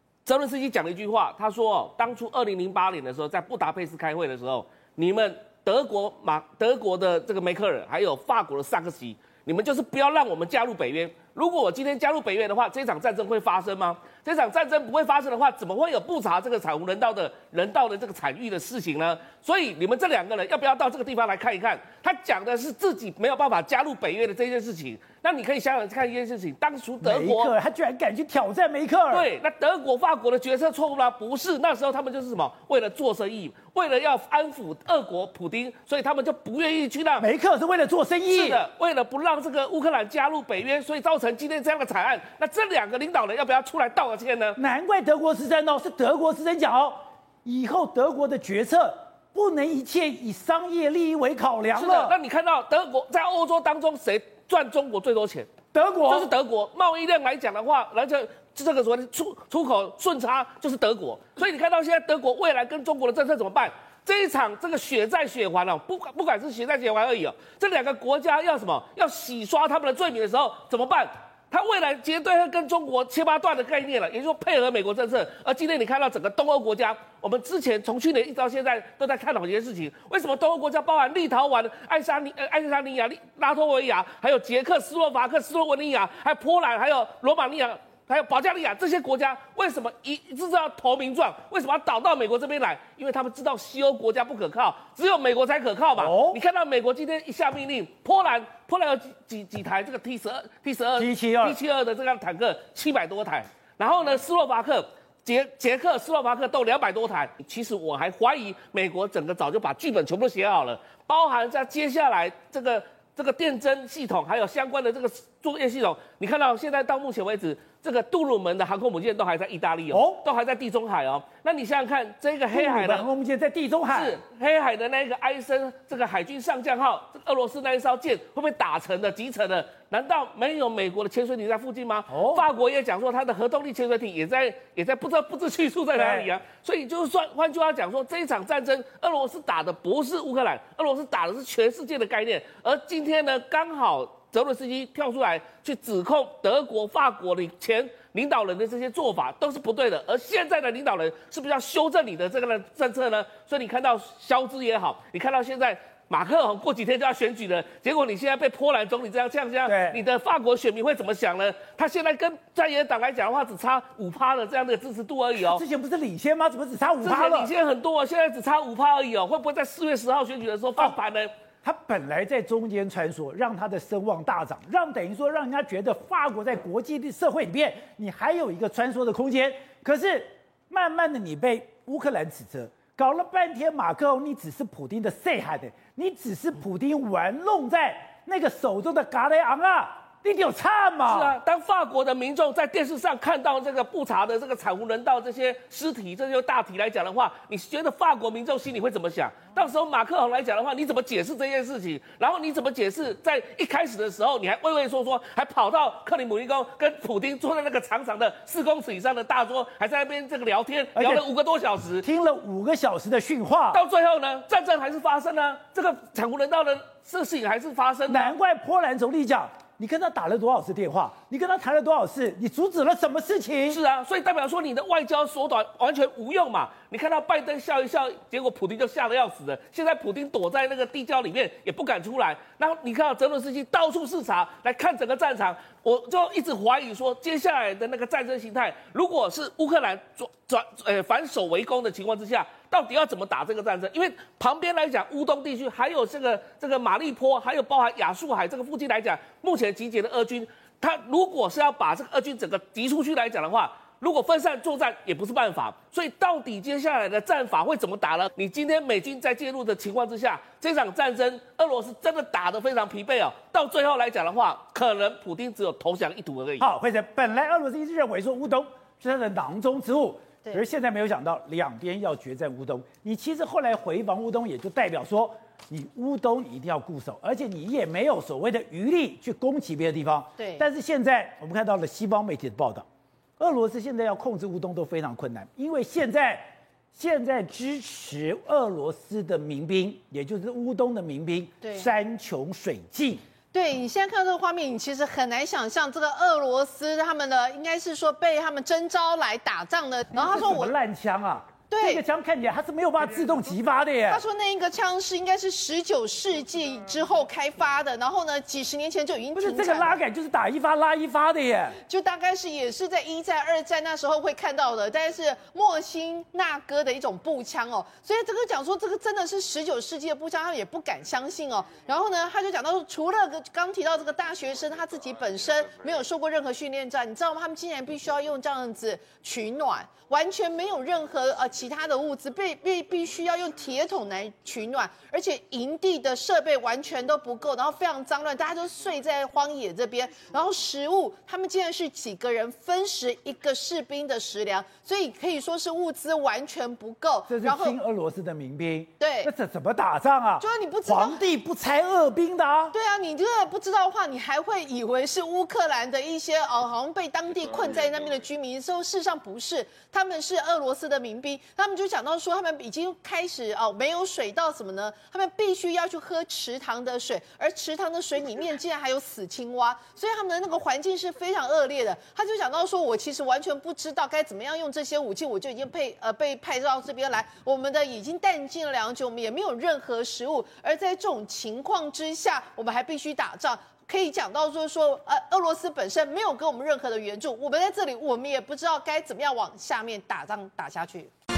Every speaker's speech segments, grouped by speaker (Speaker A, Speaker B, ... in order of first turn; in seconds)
Speaker A: 0.2-27.5, 29.1-37.3, 38.3-44.6, 51.7-55.5, 56.0-123.1, 123.9-165.6, 167.0-171.3, 191.0-212.0, 213.7-218.3, 223.7-266.6
Speaker B: 27.0-29.3, 37.2-38.6, 44.5-52.2, 55.7-56.3, 95.9-96.4, 101.0-101.6, 119.9-120.2, 122.5-124.2, 132.1-132.4, 135.9-136.3, 159.6-160.0, 165.4-167.5, 171.6-191.4, 210.9-211.2, 212.0-213.8, 218.1-223.8, 266.6-282.8, 283.4-293.2, 300.1-304.2, 309.4-311.8, 347.3-352.7
Speaker C: 280.4-280.6, 291.6-291.9, 293.5-300.7, 301.7-302.0, 304.1-310.0, 311.8-347.8, 349.0-349.3, 350.4-351.2, 352.7-391.1